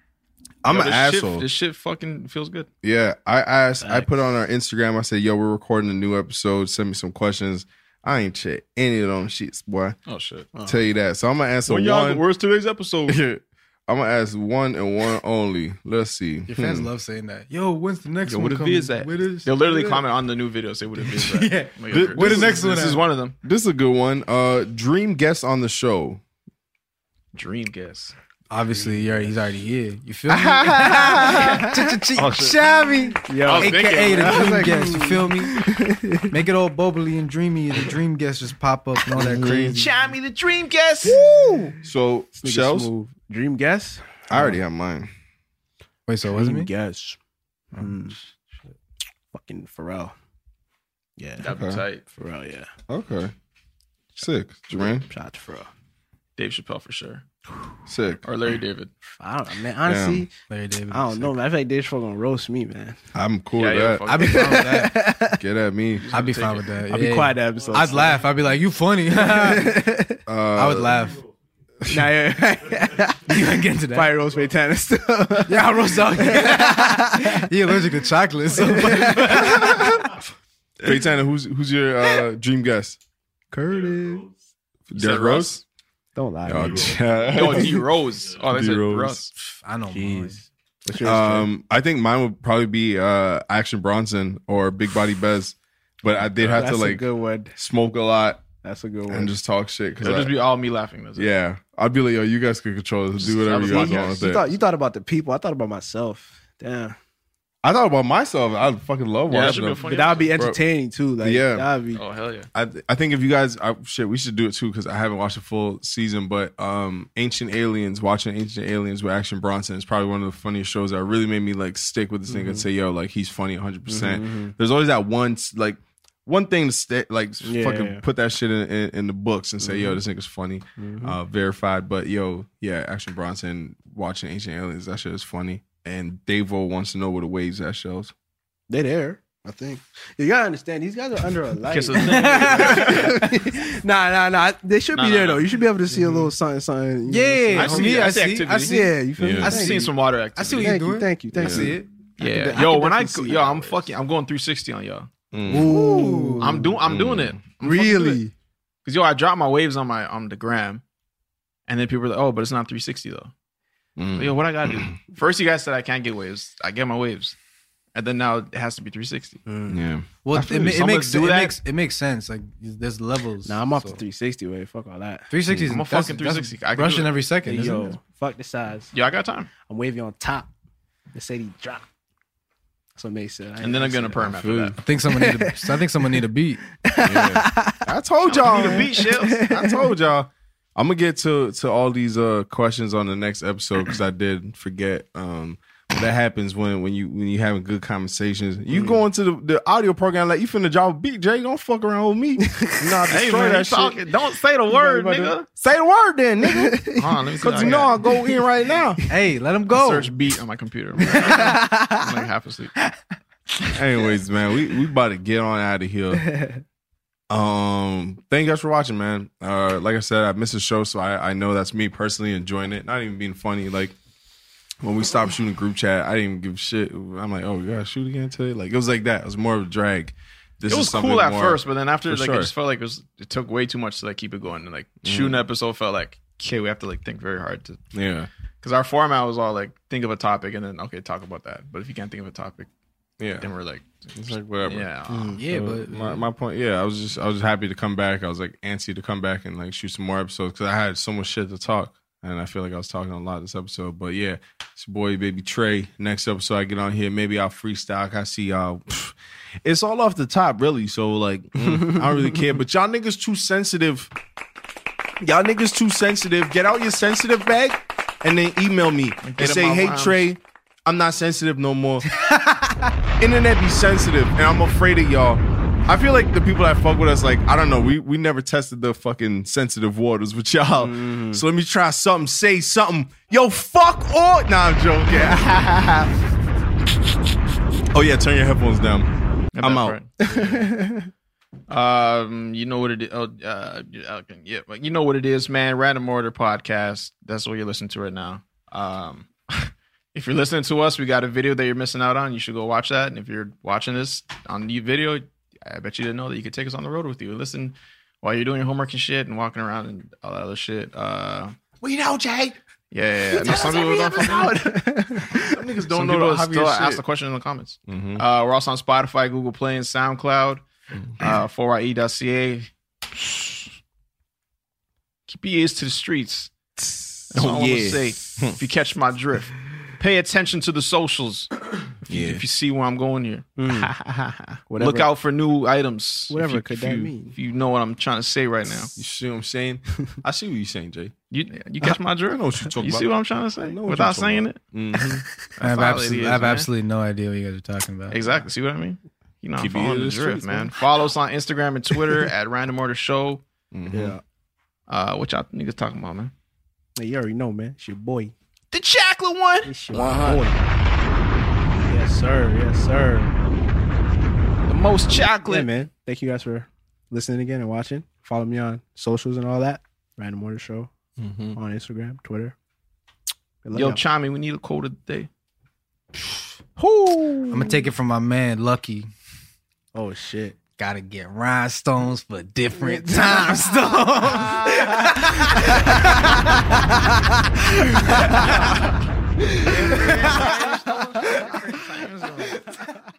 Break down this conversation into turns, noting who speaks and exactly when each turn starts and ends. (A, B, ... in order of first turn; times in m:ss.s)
0:00.6-0:01.5 A
0:00.6-0:02.7 B
0:02.8-0:10.0 A
0:03.8-0:04.1 C
0:10.1-0:10.5 B
0:10.6-0:12.2 A
0:11.7-0:13.2 B
0:13.0-0:16.9 A
0:16.5-0:20.0 D
0:18.2-0:23.3 B
0:21.0-0:23.0 D
0:21.9-0:26.2 A
0:27.3-0:28.1 B
0:28.5-0:35.6 D
0:30.4-0:31.1 A
0:30.4-0:31.8 C
0:32.2-0:32.6 B
0:33.3-0:36.3 C
0:33.4-0:34.7 B
0:36.3-0:39.9 D
0:39.1-0:39.8 A
0:39.7-0:41.2 B
0:41.0-0:41.8 C
0:41.8-0:42.9 A
0:42.4-0:44.6 C
0:44.3-0:45.1 A
0:46.1-0:46.7 D
0:46.3-0:47.2 C
0:47.7-0:48.2 C
0:49.3-0:50.1 C
0:51.2-0:51.5 C
0:51.4-0:52.0 B
0:51.4-0:51.8 A
0:52.1-0:52.7 C
0:52.9-0:53.3 A
0:54.2-0:55.0 A
0:54.7-0:55.7 C
0:56.4-0:57.2 B
0:57.9-0:58.2 A
0:58.2-0:58.9 B
0:59.1-1:00.3 C
0:59.8-1:00.2 A
1:00.5-1:01.4 D
1:00.9-1:03.0 C
1:03.1-1:04.1 A
1:03.5-1:04.7 B
1:04.1-1:05.0 D
1:04.2-1:05.4 C
1:05.3-1:06.0 A
1:06.0-1:06.8 B
1:06.1-1:09.7 D
1:06.9-1:08.2 C
1:09.1-1:10.2 C
1:10.2-1:11.0 A
1:10.5-1:11.2 D
1:11.8-1:12.2 A
1:11.9-1:17.5 C
1:13.3-1:14.2 D
1:15.5-1:20.0 D
1:18.5-1:20.0 C
1:20.8-1:23.0 A
1:23.5-1:24.3 C
1:24.9-1:25.6 A
1:24.9-1:25.6 B
1:26.1-1:27.0 C
1:26.4-1:27.8 A
1:27.3-1:29.3 B
1:28.4-1:29.2 A
1:29.4-1:30.4 D
1:29.9-1:31.5 C
1:31.0-1:38.4 A
1:36.4-1:36.6 B
1:36.5-1:37.5 C
1:38.6-1:39.3 C
1:39.1-1:40.4 A
1:40.0-1:41.3 B
1:41.2-1:44.4 A
1:43.2-1:44.5 B
1:43.6-1:47.0 C
1:47.6-1:50.6 A
1:49.3-1:50.3 B
1:49.5-1:52.0 C
1:51.2-1:51.7 A
1:51.9-1:52.5 B
1:52.5-2:18.1 A
2:02.3-2:02.6 C
2:03.9-2:04.5 C
2:07.4-2:08.0 C
2:09.6-2:10.0 C
2:10.8-2:11.2 C
2:18.7-2:29.9 C
2:21.7-2:23.2 B
2:22.0-2:22.9 D
2:24.9-2:25.6 B
2:27.1-2:31.9 D
2:27.5-2:28.9 B
2:29.2-2:29.6 A
2:29.5-2:30.7 B
2:30.5-2:33.8 C
2:31.3-2:31.7 A
2:32.2-2:35.1 B
2:35.3-2:35.8 A
2:35.4-2:36.8 C
2:35.5-2:36.5 D
2:36.4-2:38.2 B
2:36.8-2:37.4 A
2:37.6-2:38.3 C
2:38.8-2:40.8 B
2:41.7-2:43.3 B
2:44.0-2:44.9 A
2:44.1-2:47.3 B
2:47.9-2:49.4 B
2:49.5-2:49.8 C
2:49.7-2:50.8 A
2:50.2-2:54.0 D
2:50.6-2:51.6 B
2:53.4-2:55.3 C
2:55.3-2:58.0 D
2:55.4-2:55.7 A
2:55.7-2:57.1 B
2:57.4-2:58.9 C
2:58.9-2:59.5 B
2:59.6-3:00.5 C
3:01.1-3:01.8 C
3:03.0-3:04.5 C
3:03.6-3:04.8 B
3:04.3-3:04.8 A
3:04.8-3:06.6 D
3:05.1-3:05.8 C
3:06.8-3:07.8 C
3:07.0-3:24.0 A
3:08.2-3:09.4 B
3:08.4-3:09.8 C
3:18.7-3:19.0 C
3:23.1-3:25.5 B
3:24.7-3:25.3 C
3:25.5-3:26.9 A
3:26.4-3:28.3 C
3:27.0-3:28.0 B
3:27.4-3:29.0 A
3:29.1-3:30.1 D
3:29.7-3:32.7 B
3:31.1-3:32.0 C
3:33.7-3:36.2 A
3:37.3-3:43.9 A
3:44.8-3:52.5 A
3:50.7-3:57.8 B
3:55.0-3:55.4 A
3:57.9-3:58.3 A
3:58.6-4:02.7 B
4:03.2-4:03.5 A
4:03.4-4:05.4 B
4:04.1-4:24.1 A
4:05.4-4:06.2 D
4:21.7-4:22.0 C
4:25.2-4:32.1 A
4:29.2-4:30.3 B
4:32.1-4:32.8 D
4:33.2-4:46.1 A
4:40.8-4:41.4 C
4:47.9-4:50.0 A
4:49.5-4:50.1 B
4:50.2-4:51.1 C
4:51.7-5:11.6 B
5:11.8-5:12.6 A
5:12.9-5:14.7 B
5:13.4-5:15.6 C
5:15.3-5:17.0 A
5:15.9-5:20.6 B
5:17.9-5:18.2 A
5:21.0-5:21.3 A
5:21.2-5:23.7 B
5:25.3-5:26.5 B
5:27.3-5:28.6 A
5:27.3-5:38.9 B
5:32.1-5:32.4 A
5:33.6-5:33.9 C
5:34.7-5:35.1 C
5:36.3-5:37.3 C
5:39.0-5:41.1 A
5:41.3-5:44.6 B
5:42.3-5:45.2 A
5:45.6-5:46.7 B
5:45.6-5:48.2 D
5:48.1-5:53.4 B
5:49.6-5:50.7 A
5:53.7-5:54.2 A
5:53.9-5:54.2 C
5:54.9-5:56.3 B
5:57.0-5:58.3 C
5:58.7-5:59.7 B
5:59.6-6:00.7 C
5:59.9-6:00.4 A
6:01.8-6:03.3 C
6:04.7-6:05.7 B
6:05.5-6:10.9 C
6:11.2-6:11.6 A
6:11.5-6:12.5 C
6:13.6-6:14.0 C
6:13.7-6:15.3 B
6:16.8-6:17.8 C
6:17.5-6:19.1 D
6:19.9-6:20.6 C
6:20.8-6:26.5 D
6:22.8-6:25.1 C
6:28.0-6:28.5 C
6:29.4-6:30.5 C
6:29.6-6:32.6 B